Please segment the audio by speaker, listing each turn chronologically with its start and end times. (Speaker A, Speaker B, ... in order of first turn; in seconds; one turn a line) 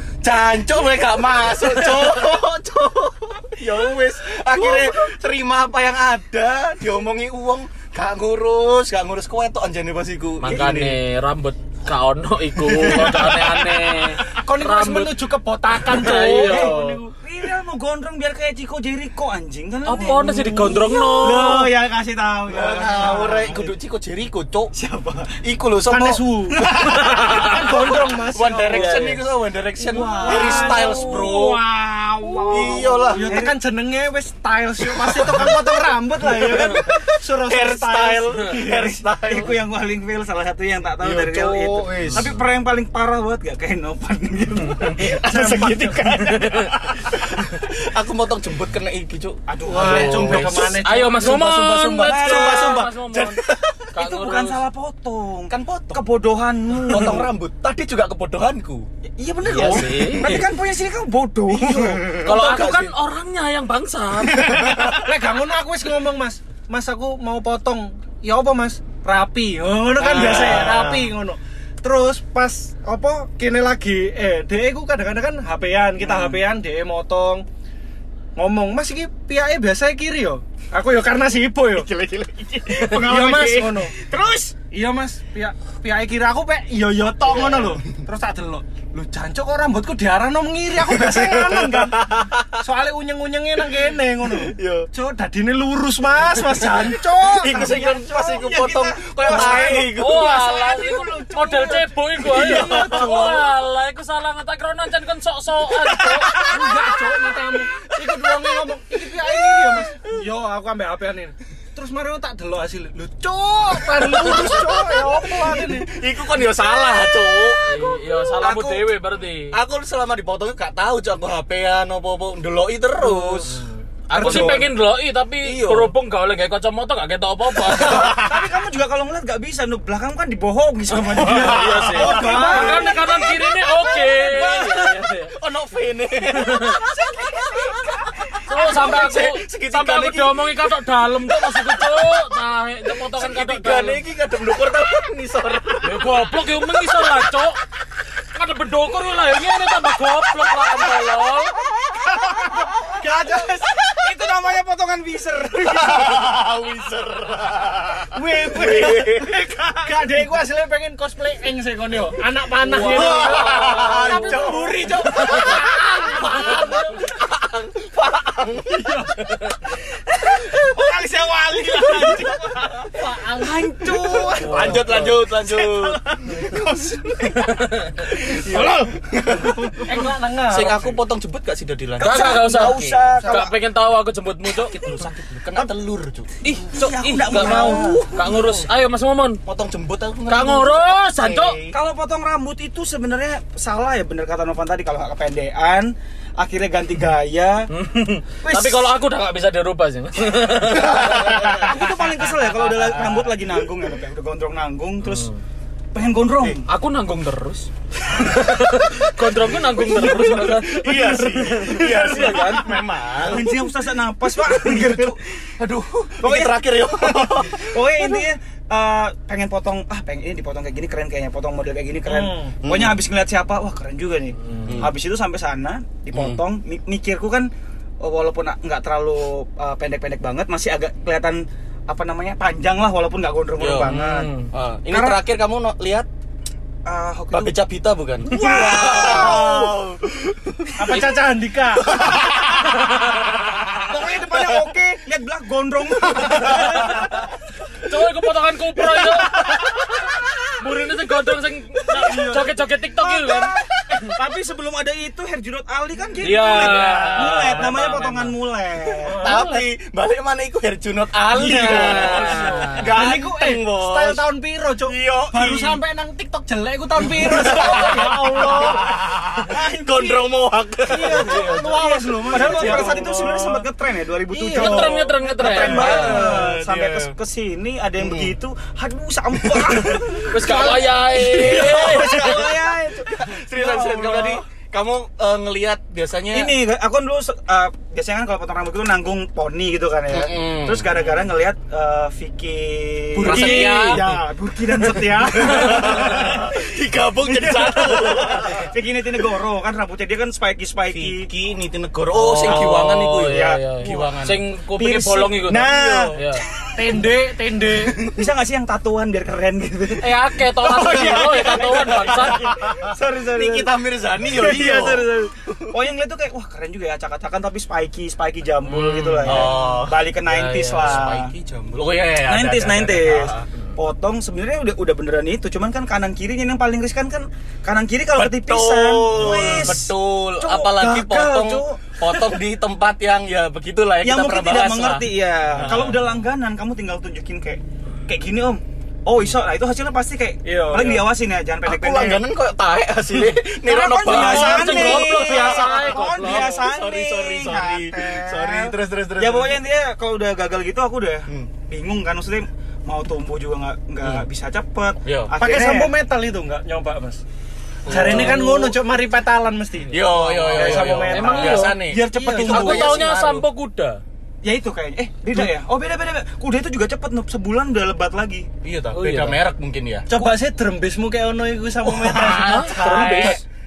Speaker A: 0.2-11.0
Speaker B: 4.5-4.9
Speaker C: 10.4-15.1
Speaker B: 10.4-10.8
Speaker A: 12.7-13.8
Speaker D: 14.3-16.8
Speaker C: 15.9-17.0
Speaker B: 16.0-23.8
Speaker C: 19.8-21.7
Speaker D: 20.3-21.4
Speaker A: 22.5-24.7
Speaker B: 24.7-25.3
Speaker A: 25.4-26.2
Speaker D: 25.9-26.6
Speaker B: 26.5-27.9
Speaker C: 26.8-27.4
Speaker D: 27.2-29.2
Speaker A: 27.6-31.6
Speaker B: 28.7-29.2
Speaker B: 29.8-33.5
Speaker D: 30.2-31.1
Speaker C: 32.3-32.6
Speaker A: 32.5-33.4
Speaker D: 33.1-38.6
Speaker A: 34.9-35.5
Speaker A: 36.3-39.6
Speaker B: 38.6-45.2
Speaker A: 41.0-42.3
Speaker A: 45.0-46.5
Speaker D: 45.2-46.4
Speaker C: 46.3-46.7
Speaker A: 47.2-49.4
Speaker B: 49.5-50.8
Speaker D: 49.7-51.5
Speaker C: 49.8-53.4
Speaker A: 50.2-53.9
Speaker B: 52.0-52.8
Speaker C: 53.9-54.6
Speaker B: 54.0-57.3
Speaker A: 55.5-56.0
Speaker A: 56.9-58.9
Speaker B: 59.2-62.3
Speaker C: 59.4-60.4
Speaker A: 59.5-60.4
Speaker A: 61.5-62.9
Speaker C: 62.2-64.5
Speaker A: 64.3-65.0
Speaker D: 64.9-77.4
Speaker A: 70.0-71.1
Speaker C: 70.1-70.6
Speaker B: 76.0-76.4
Speaker D: 78.3-81.9
Speaker B: 81.7-84.5
Speaker D: 82.9-83.9
Speaker D: 84.7-103.5
Speaker B: 87.3-87.7
Speaker A: 87.3-87.8
Speaker A: 90.8-92.6
Speaker A: 94.2-94.9
Speaker A: 96.5-100.4
Speaker B: 97.6-99.9
Speaker C: 99.9-106.3
Speaker A: 102.2-103.4
Speaker A: 106.3-110.1
Speaker D: 106.5-115.9
Speaker A: 114.0-117.6
Speaker C: 117.7-119.5
Speaker A: 118.4-118.9
Speaker A: 119.5-123.6
Speaker C: 123.0-128.4
Speaker B: 124.1-124.7
Speaker A: 124.2-124.7
Speaker A: 125.4-125.9
Speaker B: 127.7-133.3
Speaker C: 130.9-135.3
Speaker A: 131.4-133.2
Speaker A: 133.8-140.4
Speaker C: 136.3-136.8
Speaker C: 138.4-144.0
Speaker A: 141.6-141.9
Speaker A: 143.1-146.1
Speaker C: 145.8-147.6
Speaker C: 148.3-151.5
Speaker B: 151.9-153.0
Speaker D: 152.9-153.8
Speaker B: 153.7-156.3
Speaker A: 155.7-159.3
Speaker D: 158.2-159.2
Speaker B: 158.2-159.9
Speaker D: 159.8-167.1
Speaker A: 162.7-169.1
Speaker C: 162.7-164.5
Speaker B: 162.9-163.3
Speaker C: 165.2-165.6
Speaker D: 168.7-169.1
Speaker B: 170.2-177.5
Speaker D: 172.9-174.7
Speaker C: 174.4-175.1
Speaker A: 174.4-176.0
Speaker C: 177.4-178.0
Speaker A: 178.0-183.1
Speaker B: 178.1-178.9
Speaker D: 179.8-180.8
Speaker B: 182.0-183.5
Speaker C: 182.0-184.7
Speaker D: 183.2-183.4
Speaker B: 184.6-185.7
Speaker A: 184.7-186.4
Speaker C: 186.4-189.4
Speaker B: 186.7-188.0
Speaker A: 187.3-188.7
Speaker A: 189.4-191.8
Speaker C: 190.3-191.6
Speaker B: 191.7-197.7
Speaker C: 197.7-203.6
Speaker B: 198.4-198.9
Speaker A: 200.8-201.7
Speaker B: 200.8-205.3
Speaker C: 205.0-205.4
Speaker B: 205.9-206.6
Speaker C: 206.7-212.7
Speaker A: 209.8-213.6
Speaker B: 210.8-215.2
Speaker A: 214.3-218.0
Speaker B: 216.2-234.3
Speaker D: 222.1-222.5
Speaker A: 222.6-223.0
Speaker A: 224.6-224.9
Speaker A: 226.1-226.4
Speaker A: 233.6-234.0
Speaker C: 233.9-234.5
Speaker A: 234.5-236.1
Speaker B: 234.9-235.2
Speaker B: 236.8-237.6
Speaker A: 237.3-241.0
Speaker B: 238.2-239.8
Speaker C: 238.9-239.3
Speaker D: 239.0-239.4
Speaker D: 240.8-241.9
Speaker A: 241.9-242.6
Speaker C: 242.7-243.3
Speaker B: 243.7-247.3
Speaker A: 244.3-244.6
Speaker C: 247.8-253.5
Speaker B: 249.0-249.6
Speaker B: 251.9-259.2
Speaker C: 256.2-258.4
Speaker D: 259.1-259.4
Speaker A: 259.1-264.3
Speaker C: 259.2-259.6
Speaker D: 261.3-268.8
Speaker C: 261.5-262.9
Speaker A: 264.8-265.8
Speaker A: 267.0-271.7
Speaker B: 269.3-270.2
Speaker D: 270.9-273.6
Speaker B: 271.1-284.4
Speaker A: 272.3-273.6
Speaker D: 274.3-275.1
Speaker C: 274.5-276.3
Speaker A: 275.4-277.1
Speaker A: 278.0-278.3
Speaker A: 279.4-286.5
Speaker C: 280.3-282.4
Speaker B: 286.3-296.7
Speaker A: 290.1-291.1
Speaker A: 293.2-294.1
Speaker C: 293.2-294.0
Speaker A: 295.4-298.7
Speaker C: 295.5-296.3
Speaker B: 297.2-301.3
Speaker A: 300.9-304.4
Speaker C: 302.1-306.4
Speaker B: 302.4-304.0
Speaker B: 304.8-306.2
Speaker D: 306.7-308.0
Speaker B: 308.0-321.3
Speaker C: 310.0-312.4
Speaker A: 310.8-315.7
Speaker C: 318.6-321.0
Speaker A: 319.2-320.1
Speaker A: 320.8-323.4
Speaker B: 322.2-332.3
Speaker A: 328.1-336.0
Speaker B: 334.0-342.2
Speaker D: 340.4-341.0
Speaker A: 341.6-349.6
Speaker B: 343.6-355.9
Speaker C: 344.0-346.6
Speaker A: 355.1-355.3
Speaker D: 355.4-357.2
Speaker C: 357.9-358.7
Speaker D: 357.9-363.0
Speaker A: 357.9-358.3
Speaker B: 357.9-358.4
Speaker A: 359.9-363.4
Speaker C: 360.1-361.8
Speaker B: 361.5-363.0
Speaker C: 362.5-364.0
Speaker B: 364.4-368.5
Speaker A: 368.6-370.1
Speaker C: 368.9-369.4
Speaker D: 370.1-373.4
Speaker A: 371.9-373.4
Speaker C: 372.1-373.4